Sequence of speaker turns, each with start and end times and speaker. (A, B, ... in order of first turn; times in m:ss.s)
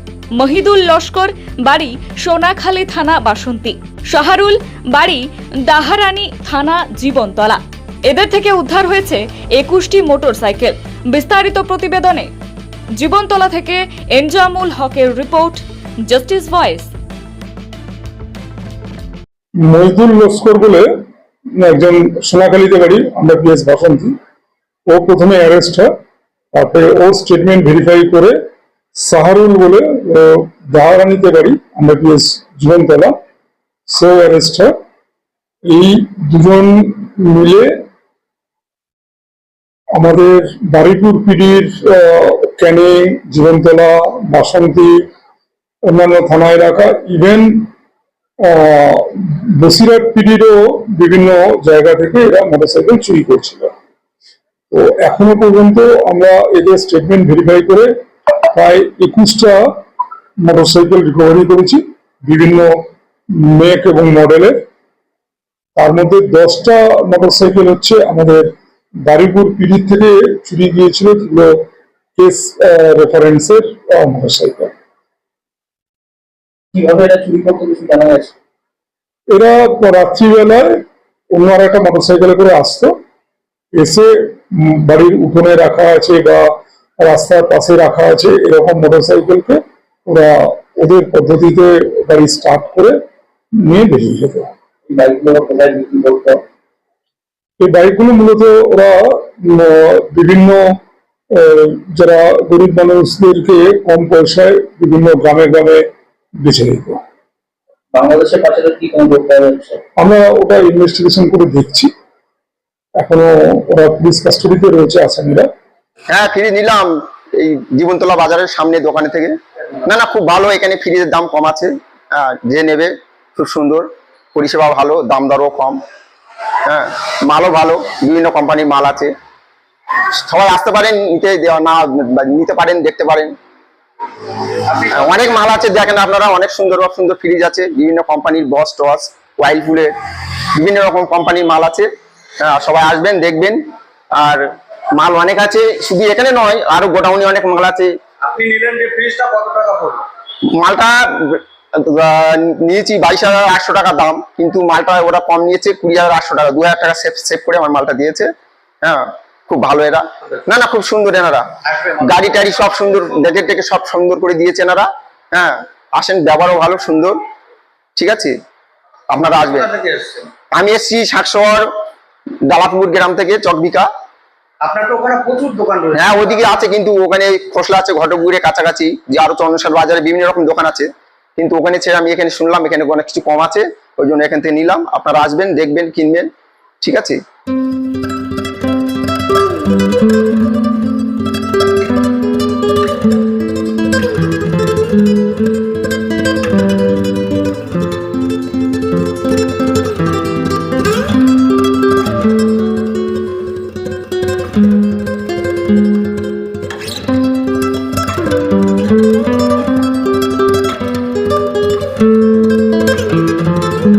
0:00.4-0:12.3 A
0:13.0-0:16.9 A
0:19.6-0:20.9 B
0:21.6-0:24.2 B
0:24.9-0:25.9 B
0:26.5-0:28.4 B
0:29.0-0:33.1 B
0:33.9-0:34.7 B
0:35.7-0:37.7 B
0:39.9-0:45.0 B
0:45.9-0:47.7 B
0:48.4-0:53.7 B
0:54.7-0:57.9 B
0:58.5-0:59.6 B
1:00.4-1:02.7 B
1:03.4-1:04.6 B
1:05.8-1:08.5 B
1:09.0-1:11.6 B
1:12.2-1:14.7 B
1:16.7-1:18.3 C
1:19.3-1:22.9 B
1:23.8-1:26.5 B
1:27.0-1:33.0 B
1:33.6-1:34.5 B
1:34.9-1:36.4 C
1:37.6-1:40.8 B
1:41.4-1:45.8 B
1:46.4-1:47.0 B
1:47.9-1:49.8 C
1:50.0-1:51.9 B
1:53.0-1:55.5 B
1:56.1-2:05.8 D
2:06.7-2:09.1 D
2:10.1-2:13.3 D
2:14.5-2:19.9 D
2:20.6-2:21.9 D
2:22.4-2:23.6 D
2:24.1-2:24.4 D
2:25.0-2:27.9 D
2:28.2-2:30.1 E
2:30.5-2:38.3 D
2:38.8-2:47.2 D
2:48.0-2:48.3 D
2:49.1-2:49.8 D
2:49.5-2:50.3 E
2:50.5-2:51.7 D
2:52.5-2:53.9 D
2:54.6-2:56.0 E
2:55.9-3:06.3 D
3:06.8-3:07.2 D